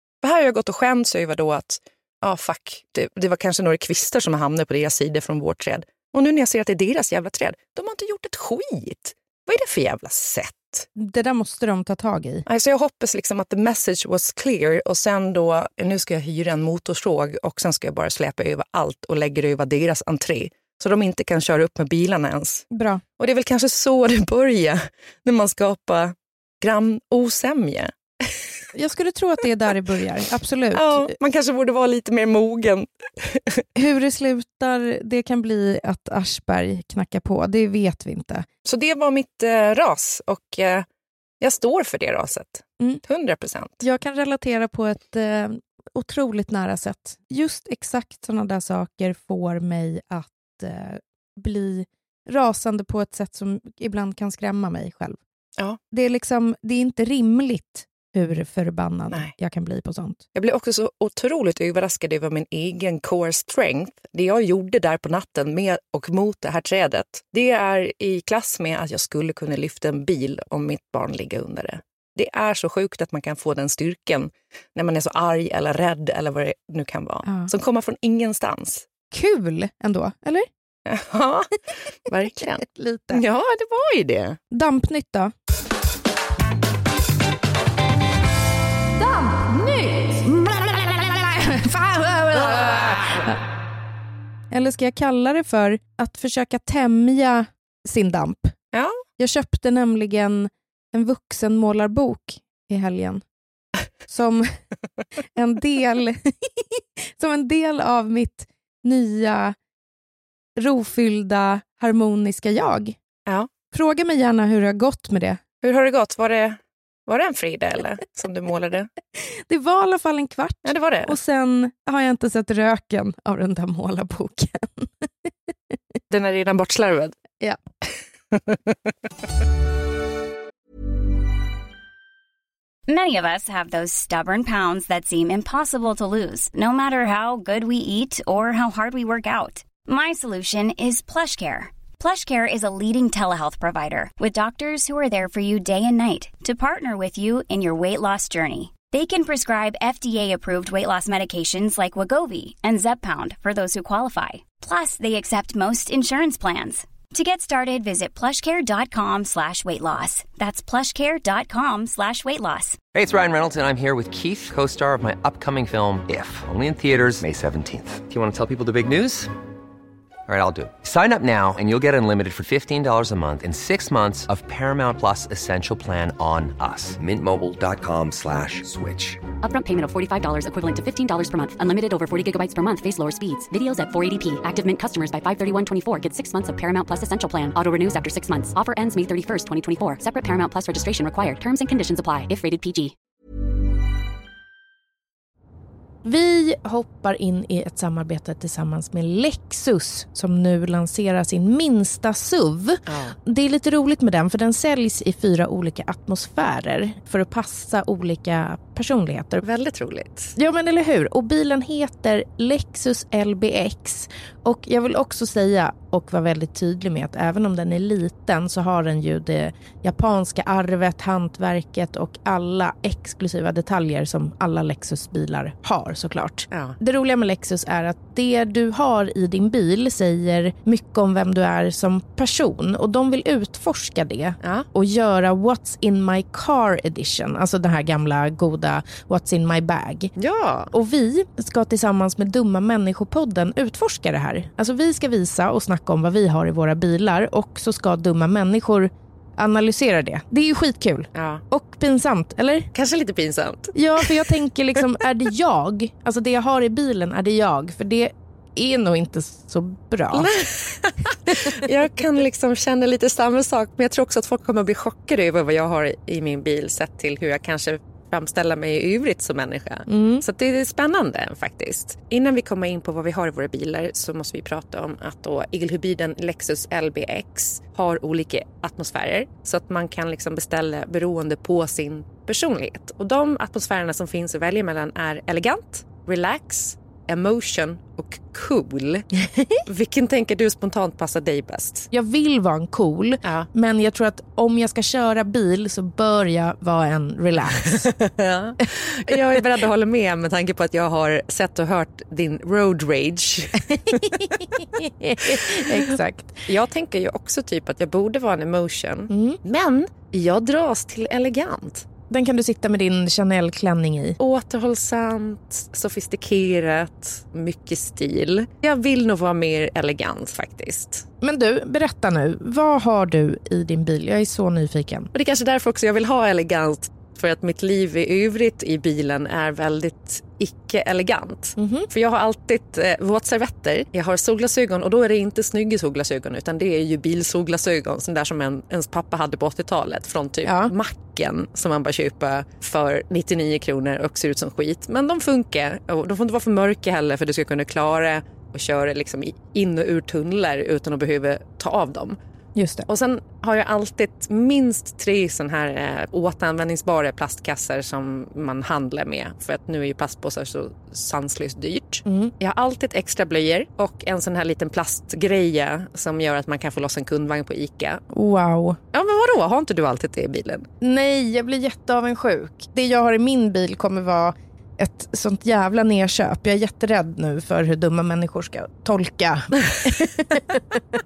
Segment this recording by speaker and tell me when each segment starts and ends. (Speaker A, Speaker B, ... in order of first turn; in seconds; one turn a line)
Speaker A: 0.2-10.9
Speaker B: 11.0-12.4
Speaker A: 12.5-22.7
Speaker B: 22.7-23.0
Speaker A: 23.2-28.4
Speaker B: 28.7-31.1
Speaker A: 30.7-33.6
Speaker B: 33.8-38.5
Speaker A: 38.6-40.9
Speaker A: 41.4-43.8
Speaker B: 43.8-55.2
Speaker B: 55.9-60.2
Speaker A: 60.4-78.9
Speaker B: 77.2-77.5
Speaker B: 79.1-80.5
Speaker A: 80.8-81.5
Speaker A: 82.1-84.4
Speaker B: 82.6-83.2
Speaker B: 84.5-85.3
Speaker B: 90.2-93.4
Speaker B: 94.5-98.5
Speaker A: 98.7-99.0
Speaker B: 99.2-103.2
Speaker B: 104.1-104.6
Speaker B: 105.4-109.6
Speaker B: 110.6-113.0
Speaker B: 113.7-115.4
Speaker A: 115.6-118.9
Speaker B: 119.2-125.7
Speaker A: 120.7-121.2
Speaker A: 126.1-127.2
Speaker A: 128.3-128.8
Speaker C: 132.9-162.8
Speaker D: 162.9-169.3
Speaker D: 170.3-179.3
Speaker E: 179.4-192.9
Speaker B: 196.0-209.4
Speaker A: 202.9-203.2
Speaker A: 209.4-210.3
Speaker B: 210.4-240.1
Speaker A: 226.5-226.8
Speaker A: 234.4-234.7
Speaker A: 240.2-240.7
Speaker B: 240.7-252.7
Speaker A: 251.1-251.4
Speaker A: 252.7-254.3
Speaker B: 253.8-260.3
Speaker A: 260.1-291.9
Speaker B: 269.9-270.2
Speaker B: 291.9-297.9
Speaker A: 297.8-304.4
Speaker B: 303.9-306.4
Speaker A: 305.2-306.0
Speaker A: 306.5-311.9
Speaker B: 309.1-309.4
Speaker B: 312.1-314.2
Speaker A: 314.2-321.1
Speaker B: 321.2-325.1
Speaker A: 325.1-352.2
Speaker B: 331.6-331.9
Speaker B: 340.4-340.7
Speaker B: 352.6-352.9
Speaker A: 352.9-368.0
Speaker B: 362.1-362.3
Speaker B: 368.1-368.8
Speaker A: 368.9-370.7
Speaker B: 370.8-380.6